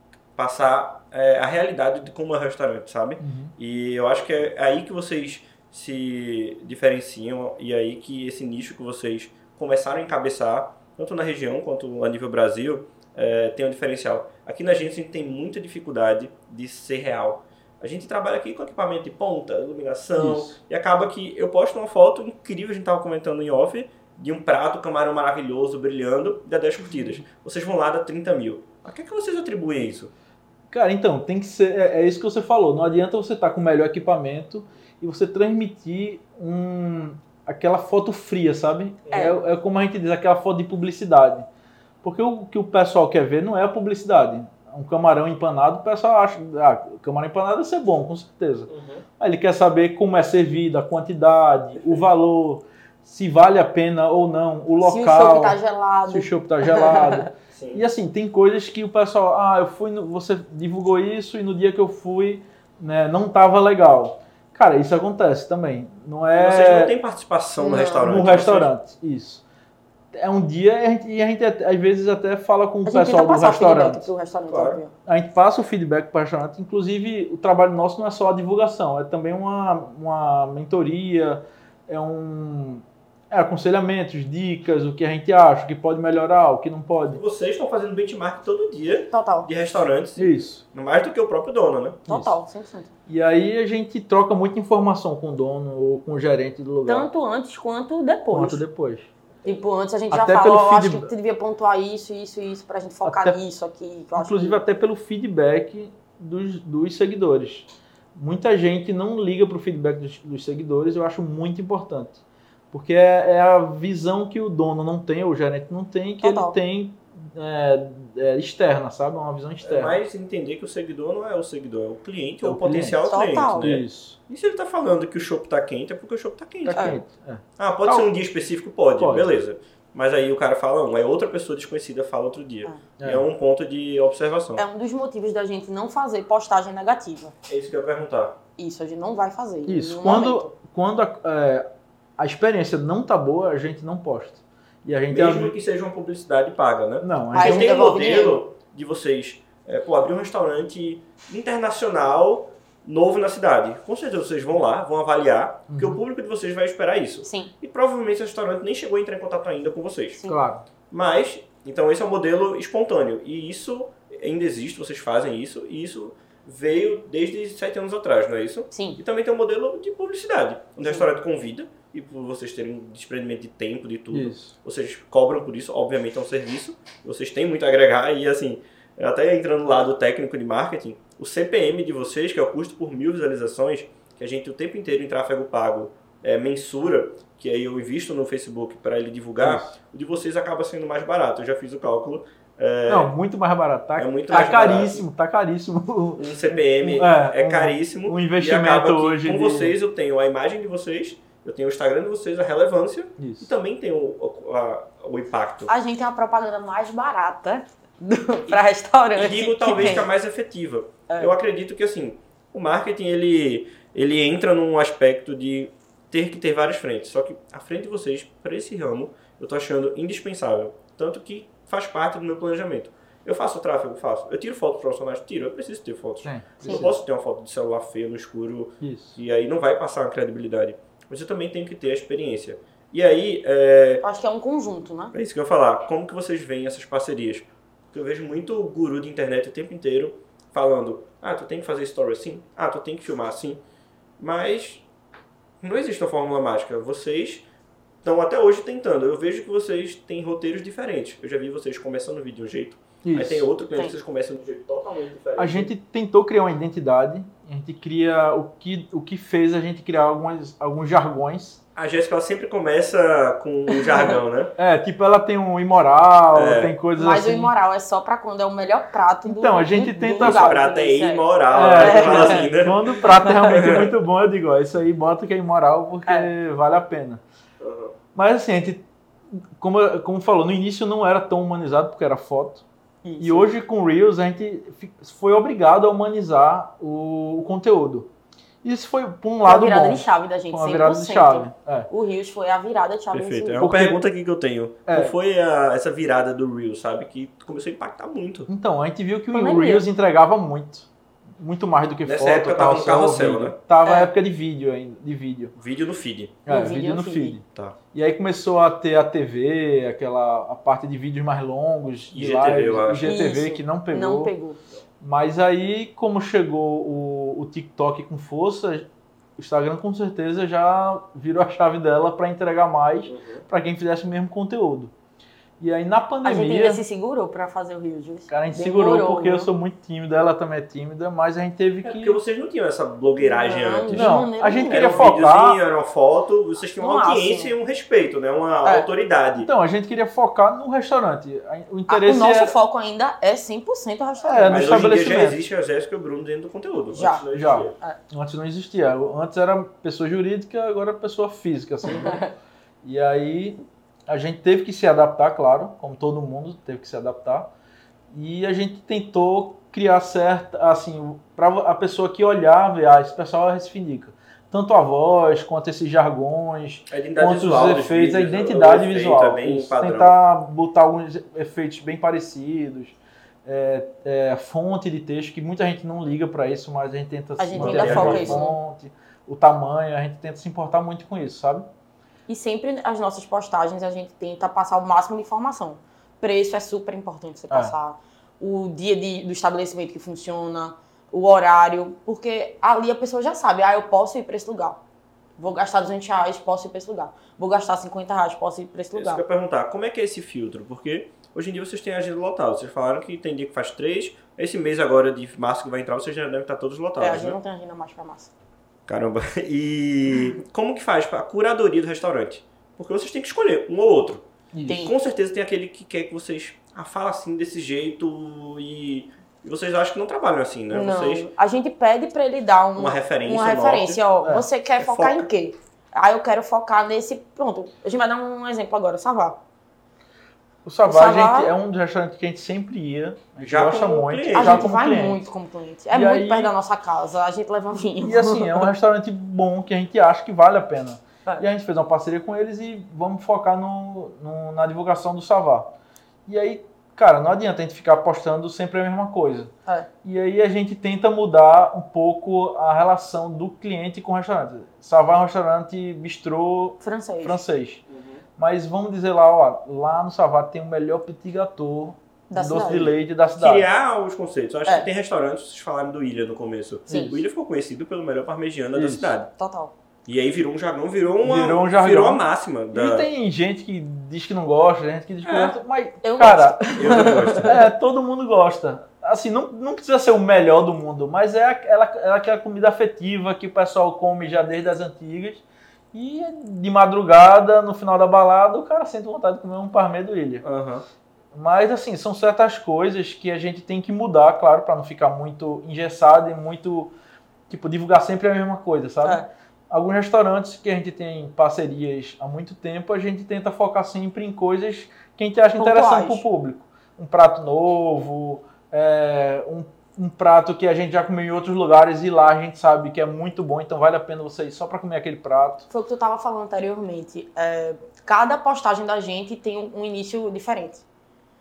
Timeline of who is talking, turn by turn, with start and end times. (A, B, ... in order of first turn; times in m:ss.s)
0:00.4-0:30.1 A
0:03.2-0:03.5 B
0:20.2-0:20.6 B
0:26.9-0:27.2 B
0:30.7-0:41.4 B
0:39.1-0:39.4 C
0:42.0-1:06.9 B
0:48.7-0:49.0 A
0:54.8-0:57.2 C
0:57.5-0:57.8 A
1:06.3-1:08.7 A
1:07.6-1:08.1 C
1:08.0-1:09.4 B
1:10.1-1:14.1 B
1:12.8-1:14.9 C
1:14.5-1:14.8 A
1:15.0-1:27.2 B
1:27.1-1:32.0 A
1:29.1-1:29.5 C
1:30.2-1:30.6 B
1:32.1-1:32.3 B
1:32.1-1:32.9 C
1:33.1-1:37.1 B
1:36.8-1:38.6 C
1:38.3-1:39.1 B
1:39.4-1:44.6 C
1:40.1-1:41.1 B
1:43.0-1:43.4 B
1:44.1-2:00.0 B
1:56.2-1:56.6 C
1:59.6-2:07.0 A
2:02.4-2:03.0 B
2:03.1-2:03.7 C
2:03.5-2:04.2 B
2:06.6-2:08.1 B
2:06.7-2:07.0 C
2:07.6-2:14.6 A
2:09.0-2:09.3 B
2:13.0-2:13.2 B
2:14.6-2:17.3 C
2:17.5-2:18.4 A
2:18.6-2:20.5 C
2:19.7-2:21.7 B
2:22.2-2:25.5 B
2:25.1-2:40.2 A
2:27.0-2:27.7 B
2:27.3-2:28.4 C
2:35.7-2:36.0 B
2:37.2-2:37.5 C
2:40.3-2:40.6 B
2:40.9-3:13.1 A
2:48.7-2:49.0 C
2:54.1-2:54.5 B
3:09.4-3:09.7 B
3:12.9-3:19.7 B
3:14.0-3:15.0 A
3:16.2-3:25.7 A
3:23.2-3:23.5 B
3:25.7-3:30.1 C
3:29.1-3:54.0 A
3:31.1-3:31.3 C
3:46.2-3:47.0 B
3:48.8-3:49.2 B
3:54.0-3:55.1 C
3:55.1-4:03.6 A
4:04.2-4:04.8 A
4:05.6-4:07.4 A
4:08.0-4:15.7 A
4:13.0-4:13.5 B
4:15.4-4:21.6 B
4:21.8-4:24.5 A
4:23.7-4:24.2 C
4:24.6-4:27.5 B
4:26.3-4:26.7 A
4:27.0-4:32.5 C
4:29.2-4:30.6 B
4:30.2-4:33.9 A
4:31.5-4:37.2 B
4:33.1-4:33.4 C
4:37.6-4:37.9 A
4:38.1-4:42.6 B
4:43.0-4:43.5 C
4:43.2-4:48.1 B
4:48.6-4:51.9 B
4:49.4-4:53.7 C
4:53.1-4:58.5 A
4:53.6-4:54.0 B
4:54.9-4:55.1 B
4:58.5-5:00.9 B
4:59.3-4:59.8 C
5:01.4-5:05.5 B
5:02.0-5:03.6 A
5:03.8-5:04.1 C
5:05.6-5:06.4 A
5:06.4-5:14.3 B
5:06.5-5:07.4 C
5:12.1-5:13.2 A
5:13.0-5:14.6 C
5:15.0-5:18.8 B
5:19.4-5:24.9 B
5:23.1-5:23.4 A
5:25.6-5:26.8 B
5:26.2-5:29.5 C
5:28.3-5:32.2 B
5:31.8-5:39.5 A
5:33.2-5:35.1 C
5:33.9-5:35.6 B
5:36.8-5:37.5 C
5:39.4-5:42.5 B
5:41.9-5:44.7 C
5:44.2-5:45.4 B
5:44.5-5:47.7 A
5:46.9-5:47.2 C
5:47.3-5:52.3 B
5:51.9-5:52.3 C
5:52.8-5:57.5 B
5:58.1-6:21.7 B
6:06.9-6:10.2 A
6:17.4-6:18.6 C
6:17.5-6:18.4 A
6:22.3-6:34.8 C
6:35.4-6:39.2 C
6:38.9-6:47.4 A
6:47.0-6:48.3 C
6:48.9-7:01.3 A
6:54.5-6:54.9 B
6:54.7-6:54.9 C
7:00.7-7:09.4 C
7:02.8-7:04.0 A
7:04.8-7:05.3 A
7:10.6-7:15.2 B
7:10.8-7:11.5 C
7:13.4-7:14.7 A
7:14.3-7:18.7 C
7:15.9-7:16.5 B
7:18.0-7:25.7 B
7:26.3-7:29.5 B
7:30.0-7:37.8 B
7:36.8-7:37.4 C
7:37.9-7:38.2 A
7:38.4-7:43.7 B
7:42.3-7:42.9 C
7:43.4-7:49.3 A
7:46.9-7:47.2 C
7:46.9-7:47.2 B
7:48.7-7:49.2 B
7:49.4-7:49.7 C
7:50.0-7:53.1 A
7:51.2-8:10.4 B
7:55.2-7:55.5 A
7:56.0-7:57.6 C
7:56.7-7:57.7 A
8:10.4-8:10.8 A
8:11.3-8:16.9 B
8:17.5-8:35.7 B
8:25.6-8:26.2 C
8:35.7-8:40.8 C